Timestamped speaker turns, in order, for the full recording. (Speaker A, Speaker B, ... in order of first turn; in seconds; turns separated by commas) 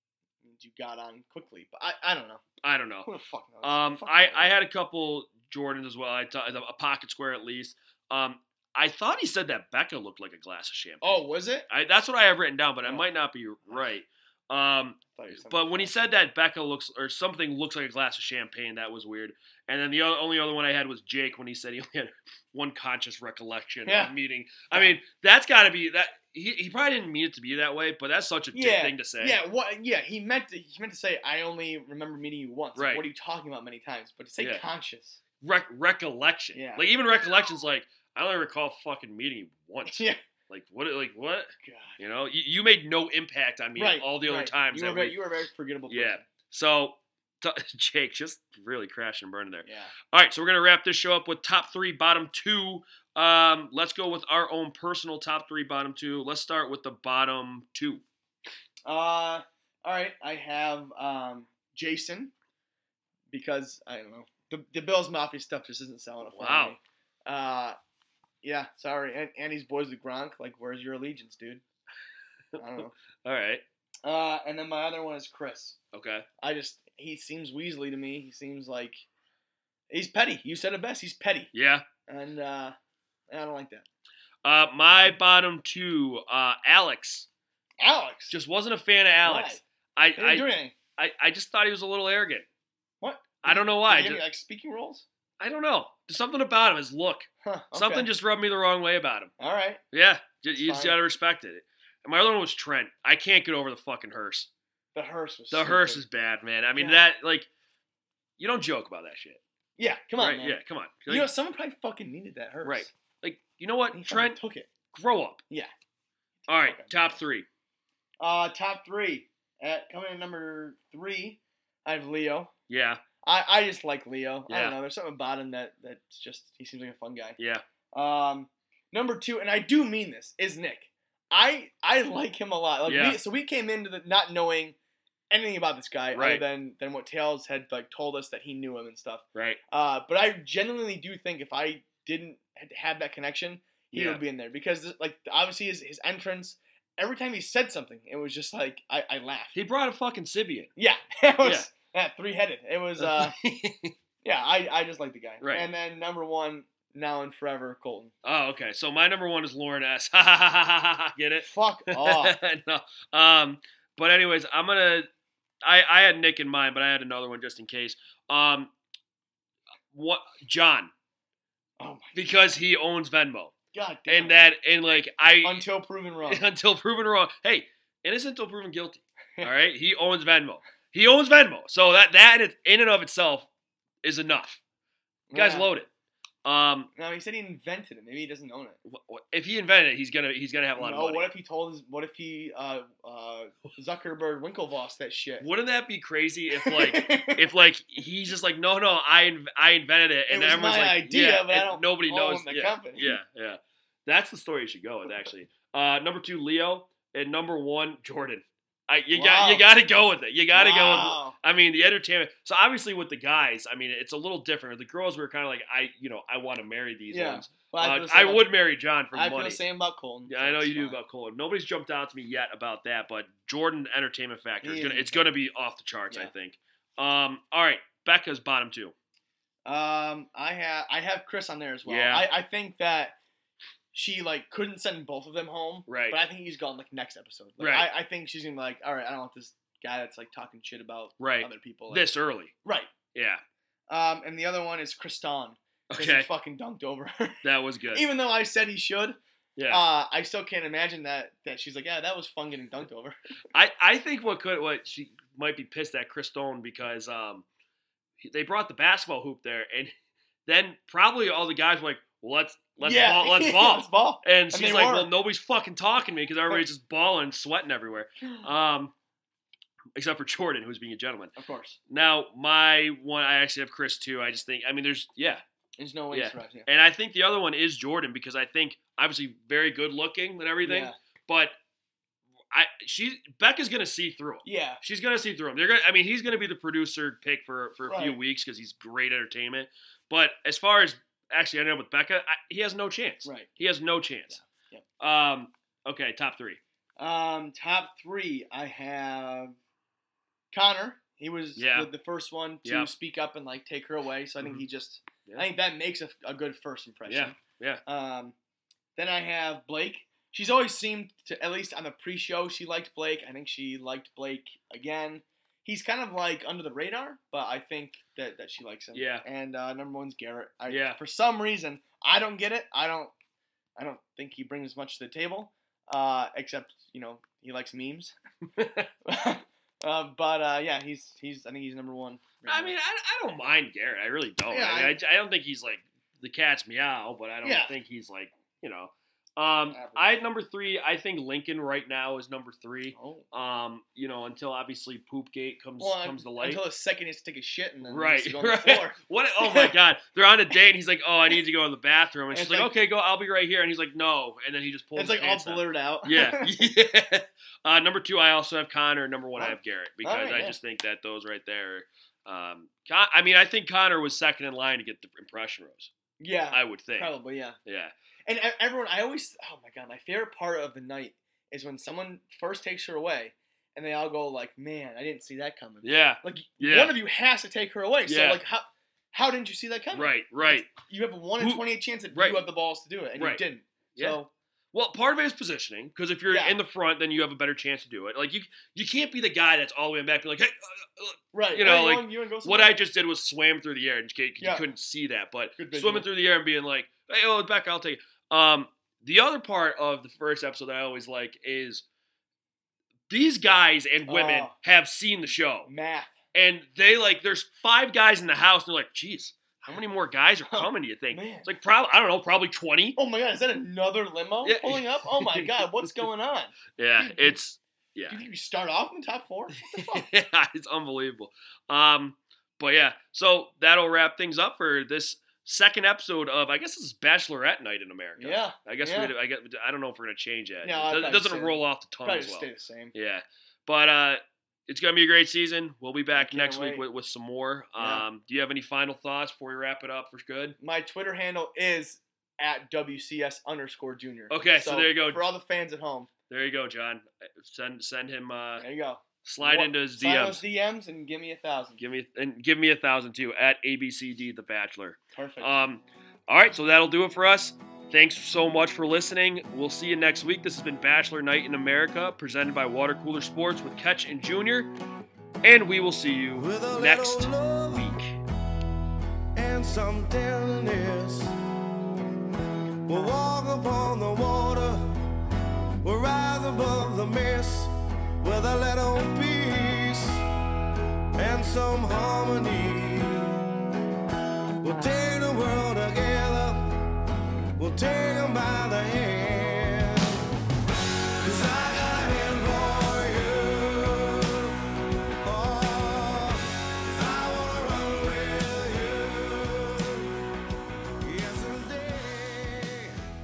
Speaker A: 0.4-2.4, Speaker B: 2.6-3.1, Speaker A: 3.0-4.5, Speaker B: 3.6-29.4, Speaker A: 11.0-11.7, Speaker A: 15.1-16.2, Speaker A: 23.8-24.1, Speaker A: 24.7-25.0, Speaker A: 28.5-35.2, Speaker B: 32.8-33.0, Speaker B: 35.4-45.2, Speaker A: 36.5-36.9, Speaker A: 39.9-40.2, Speaker A: 41.6-42.0, Speaker A: 43.8-46.2, Speaker B: 45.9-58.0, Speaker A: 49.6-49.9, Speaker A: 58.9-62.3, Speaker A: 63.3-67.8, Speaker B: 66.2-66.8, Speaker A: 68.4-71.6, Speaker A: 72.6-72.9, Speaker B: 73.2-73.6, Speaker A: 74.0-75.8, Speaker B: 75.9-76.2, Speaker A: 76.4-79.0, Speaker A: 79.9-81.5, Speaker B: 81.5-81.8, Speaker A: 82.1-82.7, Speaker A: 83.3-83.8, Speaker B: 84.4-87.3, Speaker A: 87.8-88.3, Speaker B: 88.3-90.5, Speaker A: 89.2-89.6, Speaker A: 90.2-90.7, Speaker B: 91.0-92.5, Speaker A: 93.0-95.0, Speaker B: 93.4-94.2, Speaker B: 95.4-99.3, Speaker A: 97.4-98.1, Speaker A: 99.4-99.8, Speaker B: 99.9-104.5, Speaker A: 100.5-101.0, Speaker A: 104.9-106.0, Speaker B: 105.5-107.5, Speaker A: 106.7-107.0, Speaker B: 108.4-109.4, Speaker A: 109.8-112.9, Speaker B: 110.2-111.3, Speaker B: 112.6-114.4, Speaker A: 113.9-114.7, Speaker B: 114.9-115.4, Speaker A: 116.4-117.2, Speaker B: 116.5-117.5, Speaker A: 118.2-122.5, Speaker B: 122.7-123.0, Speaker A: 123.2-127.4, Speaker B: 124.5-124.8, Speaker B: 127.4-127.6, Speaker A: 127.9-134.8, Speaker B: 132.8-133.2, Speaker A: 135.3-149.5, Speaker B: 136.1-136.4, Speaker B: 143.9-144.2, Speaker B: 149.5-150.7, Speaker A: 150.8-153.3, Speaker B: 151.4-151.7, Speaker B: 153.0-153.9, Speaker A: 154.2-158.1, Speaker B: 155.4-155.7, Speaker B: 158.2-165.1, Speaker A: 161.4-162.4, Speaker B: 165.6-168.7, Speaker B: 169.9-170.9, Speaker A: 171.8-172.6, Speaker B: 172.1-173.5, Speaker A: 173.7-174.3, Speaker B: 174.1-175.6, Speaker A: 175.4-176.4, Speaker B: 176.2-183.5, Speaker B: 184.0-184.6, Speaker A: 185.3-185.7, Speaker B: 185.3-185.9, Speaker B: 186.4-186.9, Speaker A: 186.9-188.8, Speaker B: 188.8-191.3, Speaker A: 190.8-195.4, Speaker B: 195.4-219.6, Speaker A: 196.5-197.5, Speaker A: 200.3-203.2, Speaker A: 209.1-209.7, Speaker A: 210.5-211.3, Speaker A: 217.1-218.5, Speaker A: 219.1-221.0, Speaker B: 220.3-228.9, Speaker A: 224.6-225.3, Speaker A: 229.7-233.2, Speaker B: 231.8-232.2, Speaker A: 233.9-242.1, Speaker B: 235.9-236.2, Speaker B: 237.6-237.9, Speaker B: 241.2-242.5, Speaker A: 242.6-242.9, Speaker B: 243.1-243.4, Speaker A: 243.9-249.2, Speaker B: 245.9-246.3, Speaker B: 247.4-248.0, Speaker B: 249.6-249.8, Speaker A: 249.7-253.2, Speaker B: 253.5-257.4, Speaker B: 258.2-259.9, Speaker B: 260.4-268.9, Speaker A: 262.8-265.1, Speaker A: 268.2-268.5, Speaker B: 269.9-271.3, Speaker A: 271.4-271.8, Speaker B: 271.9-275.4, Speaker A: 275.8-276.7, Speaker B: 276.1-281.5, Speaker A: 280.6-280.9, Speaker B: 282.5-294.4, Speaker A: 284.4-284.8, Speaker A: 287.8-288.2, Speaker A: 294.3-294.8, Speaker B: 295.0-296.6, Speaker A: 297.0-299.6, Speaker A: 300.5-308.3, Speaker B: 301.6-301.9, Speaker B: 302.6-302.9, Speaker B: 304.4-304.6, Speaker B: 307.1-307.8, Speaker A: 308.9-323.1, Speaker B: 318.9-319.2, Speaker B: 320.7-321.0, Speaker A: 323.8-328.1, Speaker B: 328.6-328.9, Speaker A: 329.0-332.7, Speaker B: 332.4-346.6, Speaker A: 334.5-334.9, Speaker A: 337.4-337.7, Speaker A: 339.7-340.2, Speaker A: 342.9-343.2, Speaker A: 345.8-349.7, Speaker B: 347.9-365.9, Speaker A: 352.3-352.7, Speaker A: 354.9-356.6, Speaker A: 359.4-360.6, Speaker A: 366.2-367.6, Speaker B: 366.5-367.1, Speaker B: 367.6-367.9, Speaker A: 368.3-384.3, Speaker B: 375.8-376.9, Speaker B: 378.1-378.4, Speaker B: 379.9-380.7, Speaker B: 381.4-382.4, Speaker B: 384.7-401.9, Speaker A: 386.3-386.6, Speaker A: 391.3-392.7, Speaker A: 395.6-396.1, Speaker B: 403.1-405.7, Speaker A: 404.1-404.5, Speaker A: 405.6-406.1, Speaker B: 406.3-412.9, Speaker A: 410.5-411.5, Speaker A: 412.9-417.4, Speaker B: 414.4-416.1, Speaker B: 416.8-418.2, Speaker A: 418.1-420.1, Speaker B: 419.8-440.6, Speaker A: 428.2-429.1, Speaker A: 430.6-432.9, Speaker A: 436.1-436.8, Speaker A: 437.8-438.0, Speaker A: 440.6-446.1, Speaker B: 444.3-445.2, Speaker B: 446.3-448.6, Speaker A: 448.6-451.8, Speaker B: 449.2-450.4, Speaker B: 451.8-464.7, Speaker A: 455.1-455.5, Speaker B: 465.4-468.1, Speaker C: 466.4-468.0, Speaker C: 469.3-471.3, Speaker C: 472.9-474.8, Speaker C: 475.8-480.2, Speaker C: 481.1-483.6, Speaker C: 484.6-486.7, Speaker C: 487.6-490.2, Speaker C: 491.2-494.6, Speaker C: 495.2-500.1, Speaker C: 501.0-502.9